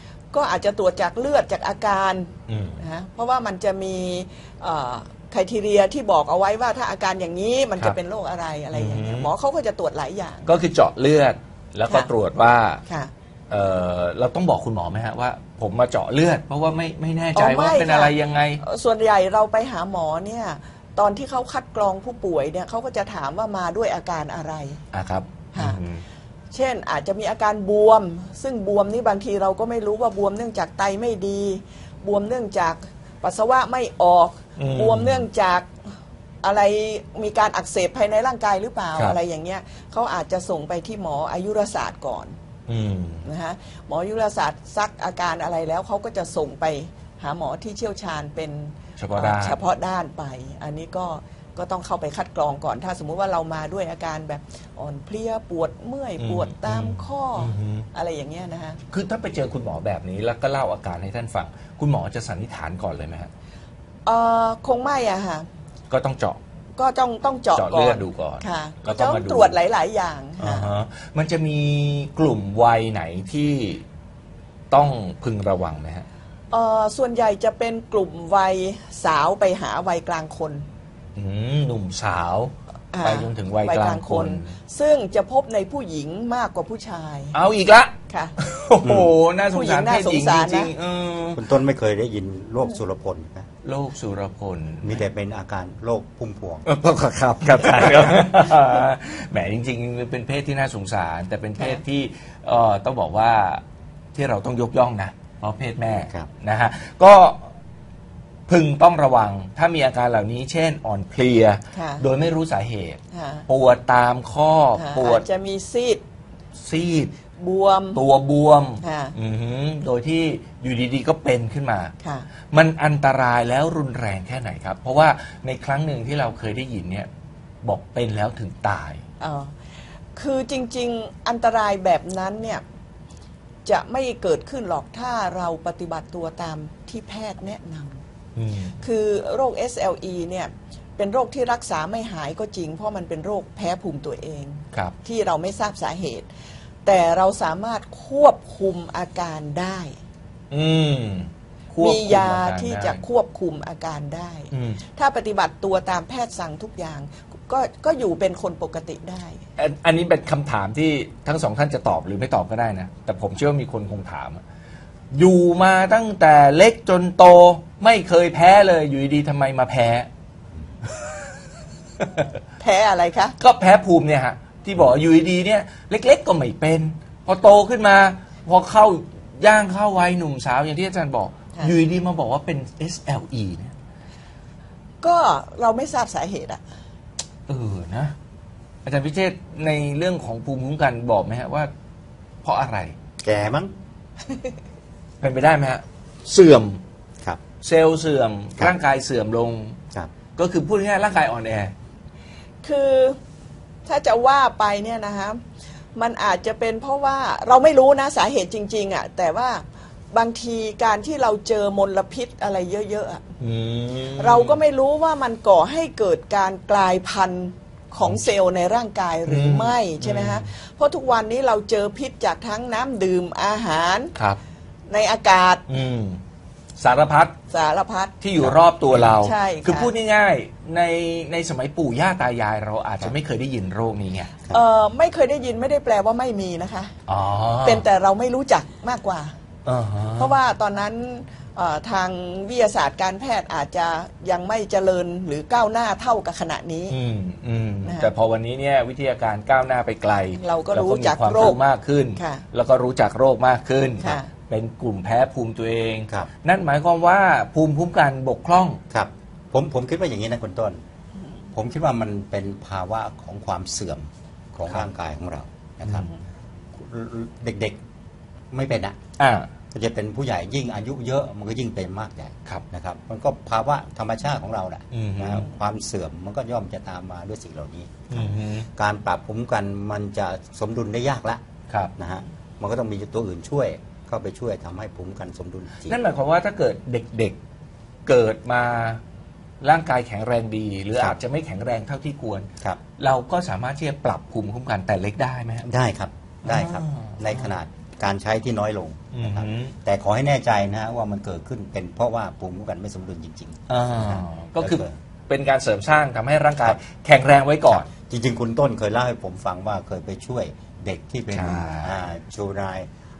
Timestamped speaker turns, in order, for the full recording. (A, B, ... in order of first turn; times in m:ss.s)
0:00.3-0:10.5 A
0:02.5-0:02.8 B
0:08.7-0:09.3 B
0:10.4-0:12.8 B
0:12.9-0:13.1 A
0:13.5-0:18.6 B
0:17.4-0:24.8 A
0:24.9-0:26.0 B
0:25.5-0:25.8 A
0:26.5-0:35.7 A
0:34.6-0:35.2 B
0:36.4-0:42.3 A
0:42.7-0:43.3 B
0:43.2-0:58.8 A
0:49.0-0:49.6 B
0:56.2-0:57.9 B
0:58.9-1:03.3 B
1:04.0-1:05.5 A
1:05.9-1:06.4 B
1:06.8-1:10.7 A
1:07.5-1:09.6 B
1:10.4-1:13.8 B
1:14.7-1:16.0 B
1:16.5-1:20.6 A
1:21.2-1:24.5 B
1:22.9-1:27.4 A
1:27.3-1:31.4 B
1:28.1-1:28.3 A
1:28.8-1:29.1 C
1:29.5-1:30.7 A
1:31.3-1:33.5 C
1:33.6-1:35.0 B
1:34.8-1:36.6 C
1:36.6-1:43.6 B
1:44.1-1:47.5 B
1:48.5-1:55.2 B
1:51.7-1:52.0 A
1:53.1-1:53.4 A
1:54.8-1:56.0 A
1:56.6-1:57.1 B
1:57.4-1:58.0 A
1:57.9-2:01.9 B
1:58.8-1:59.1 A
2:02.0-2:02.3 A
2:02.5-2:07.1 B
2:07.6-2:09.0 B
2:09.2-2:09.5 A
2:10.2-2:12.6 A
2:13.6-2:18.0 A
2:18.4-2:18.8 B
2:18.8-2:26.3 A
2:26.8-2:30.0 A
2:30.5-2:33.0 B
2:31.8-2:39.4 A
2:34.5-2:34.8 B
2:39.6-2:44.4 B
2:45.1-2:50.1 B
2:52.0-2:52.3 B
2:52.6-2:53.3 A
2:53.4-3:03.7 B
3:05.0-3:06.6 A
3:07.5-3:08.1 B
3:08.8-3:11.7 B
3:12.4-3:12.9 B
3:13.2-3:13.7 C
3:15.2-3:16.8 B
3:17.6-3:19.8 B
3:20.4-3:21.7 B
3:22.6-3:23.2 A
3:23.8-3:25.4 A
3:25.9-3:33.2 A
3:33.4-3:34.6 B
3:34.2-3:44.1 A
3:38.0-3:38.2 B
3:39.2-3:40.4 B
3:44.9-3:45.6 A
3:45.7-3:46.2 B
3:46.8-3:47.4 B
3:47.5-3:48.2 A
3:48.2-3:54.3 B
3:49.1-3:49.9 A
3:54.5-3:56.9 A
3:57.1-3:57.8 B
3:57.6-3:59.3 A
3:59.6-4:00.4 B
4:00.2-4:07.0 A
4:06.9-4:18.8 B
4:07.8-4:08.1 A
4:10.4-4:11.6 A
4:12.1-4:12.4 A
4:14.0-4:14.3 A
4:18.9-4:20.8 C
4:21.5-4:26.1 C
4:26.7-4:27.8 C
4:28.5-4:29.0 C
4:29.2-4:29.5 B
4:29.7-4:41.4 C
4:34.9-4:35.5 B
4:38.1-4:38.7 B
4:42.0-4:46.0 C
4:45.9-4:47.4 B
4:48.0-4:49.0 B
4:49.6-4:55.7 B
4:55.6-5:05.0 C
4:56.4-4:57.5 B
4:59.1-4:59.7 B
5:03.7-5:07.9 B
5:07.7-5:12.9 C
5:11.3-5:12.0 B